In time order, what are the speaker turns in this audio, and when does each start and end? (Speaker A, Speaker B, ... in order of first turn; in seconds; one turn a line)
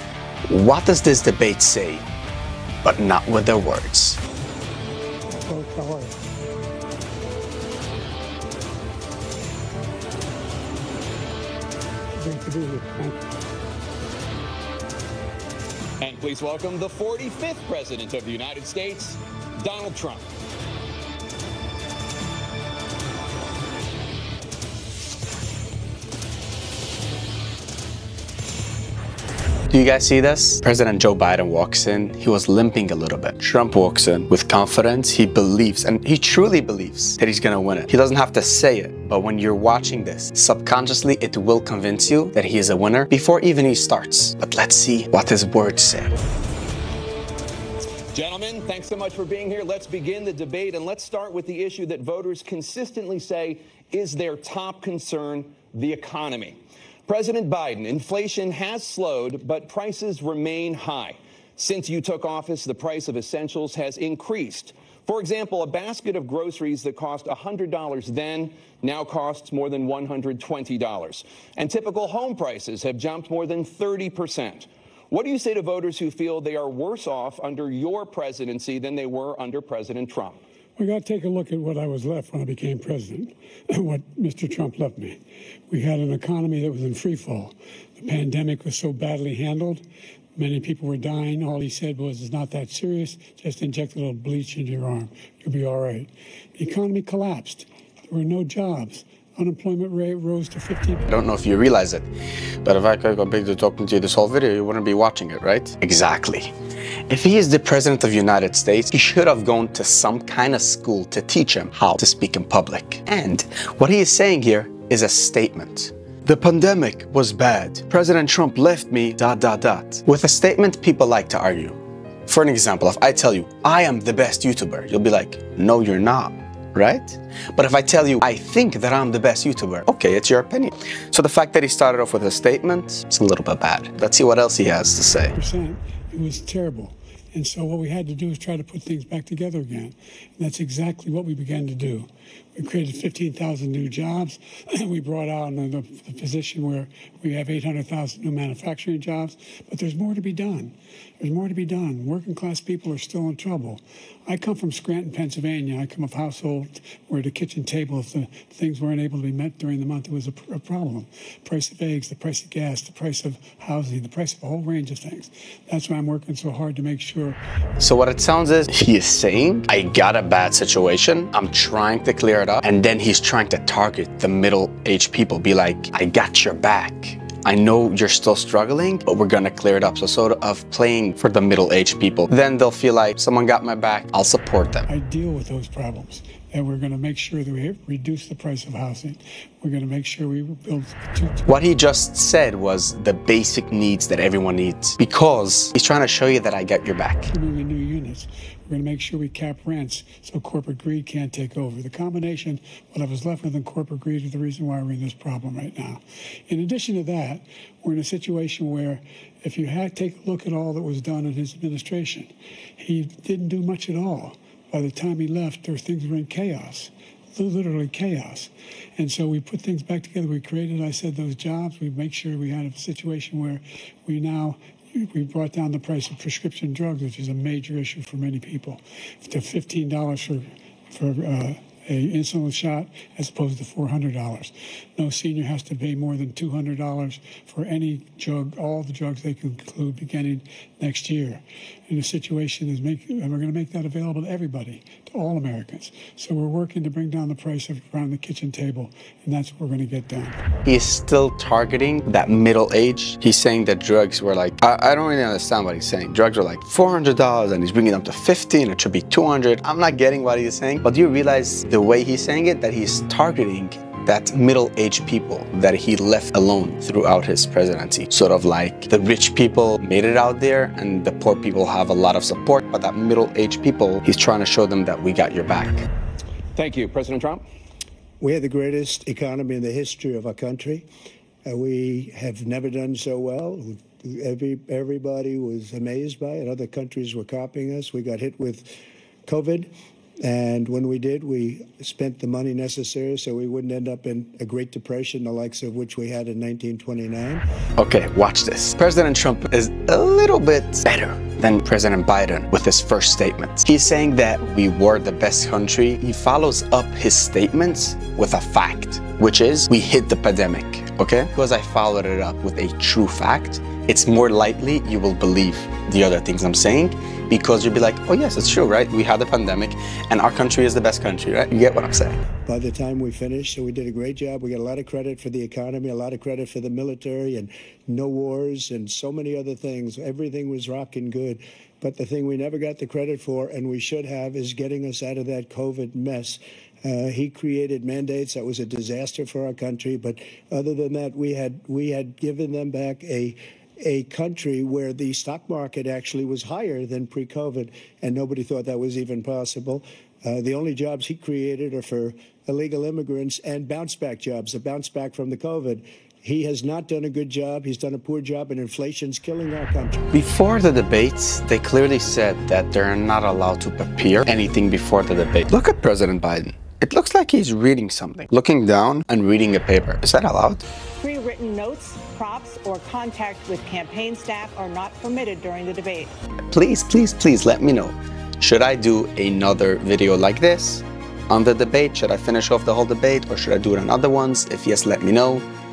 Speaker A: 0.5-2.0
Speaker A: 2.8-4.2
Speaker B: 5.3-6.2
Speaker B: 12.2-13.2
Speaker C: 16.0-20.3
Speaker A: 29.7-46.1
Speaker C: 48.1-80.4
Speaker B: 80.8-85.2
Speaker B: 85.7-89.8
Speaker B: 90.3-101.1
Speaker A: 101.1-102.1
Speaker A: 102.6-106.5
Speaker A: 107.1-135.3
Speaker B: 135.4-167.4
Speaker A: 167.8-184.9
Speaker B: 184.9-191.5
Speaker A: 191.4-197.3
Speaker B: 197.3-250.4
Speaker A: 250.6-275.9
Speaker C: 276.6-277.4
Speaker D: 278.2-280.9
Speaker D: 281.4-288.7
Speaker D: 289.2-289.7
Speaker D: 290.2-297.4
Speaker A: 297.8-322.2
Speaker D: 322.4-360.1
Speaker A: 360.1-370.6
Speaker E: 371.0-376.1
Speaker A: 376.5-385.4